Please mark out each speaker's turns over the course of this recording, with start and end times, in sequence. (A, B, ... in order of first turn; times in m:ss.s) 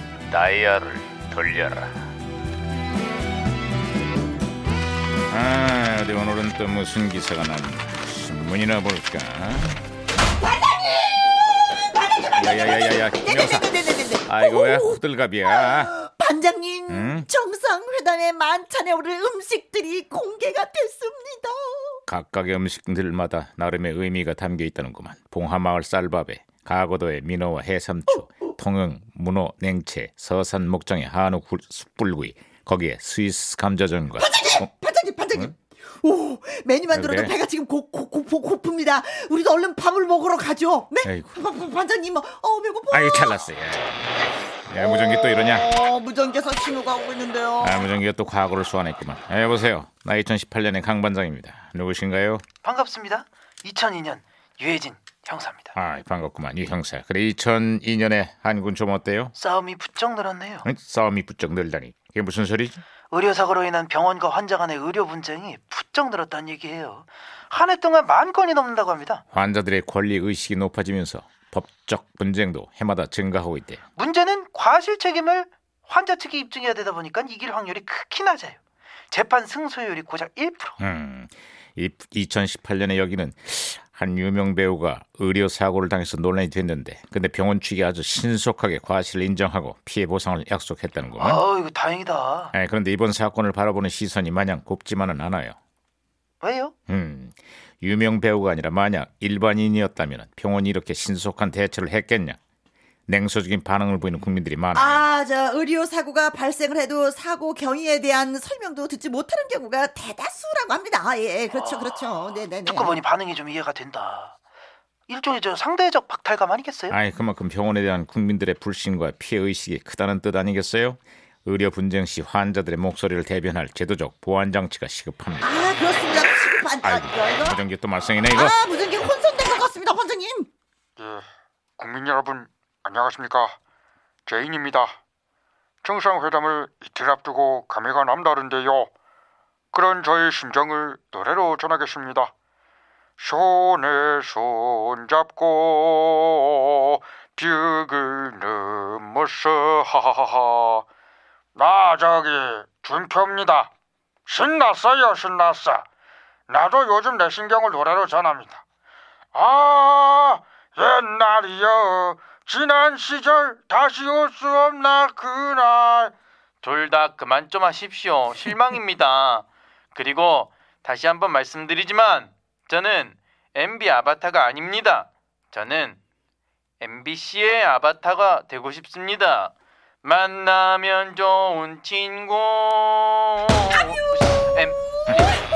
0:00.3-0:02.0 A
0:05.3-0:09.8 A
0:10.4-0:22.0 B
0:12.4-0:15.9 A
0:16.9-0:17.3 A
0:22.1-0:34.6 A
0:34.2-0:43.4 B
0:36.9-0:37.3 A
0:41.0-0:41.3 A
0:42.9-0:44.0 A
0:44.7-0:45.7 A
0:44.8-0:47.9 B
0:47.6-0:52.4 A
0:52.6-0:55.7 C
0:55.7-0:59.3 A
0:59.4-1:00.6 C
1:00.6-1:02.8 A
1:03.1-1:09.2 C
1:09.3-1:13.8 A
1:14.0-1:18.6 C
1:19.1-1:20.8 C
1:20.8-1:31.4 A
1:31.2-1:32.5 C
1:32.5-1:35.6 A
1:36.4-1:36.7 C
1:36.9-1:42.4 A
1:43.1-1:45.0 A
1:44.7-1:53.0 B
1:51.5-1:54.4 C
1:55.1-1:57.0 C
1:56.9-2:05.6 A
2:05.4-2:07.6 B
2:06.8-2:08.6 A
2:08.3-2:10.5 B
2:11.0-2:11.2 D
2:11.8-2:13.6 D
2:14.3-2:15.0 D
2:15.8-2:18.9 D
2:19.7-2:22.3 D
2:23.2-2:30.8 D
2:31.6-2:33.7 D
2:34.3-2:35.8 D
2:36.5-2:38.6 D
2:39.3-2:46.1 D
2:46.6-2:47.6 C
2:46.7-2:49.4 E
2:48.3-2:48.9 C
2:50.0-2:52.3 E
2:50.8-2:52.0 C
2:52.7-2:56.0 C
2:53.7-2:54.9 E
2:56.8-2:59.5 E
2:57.6-2:59.0 C
3:00.0-3:03.6 E
3:04.0-3:04.4 C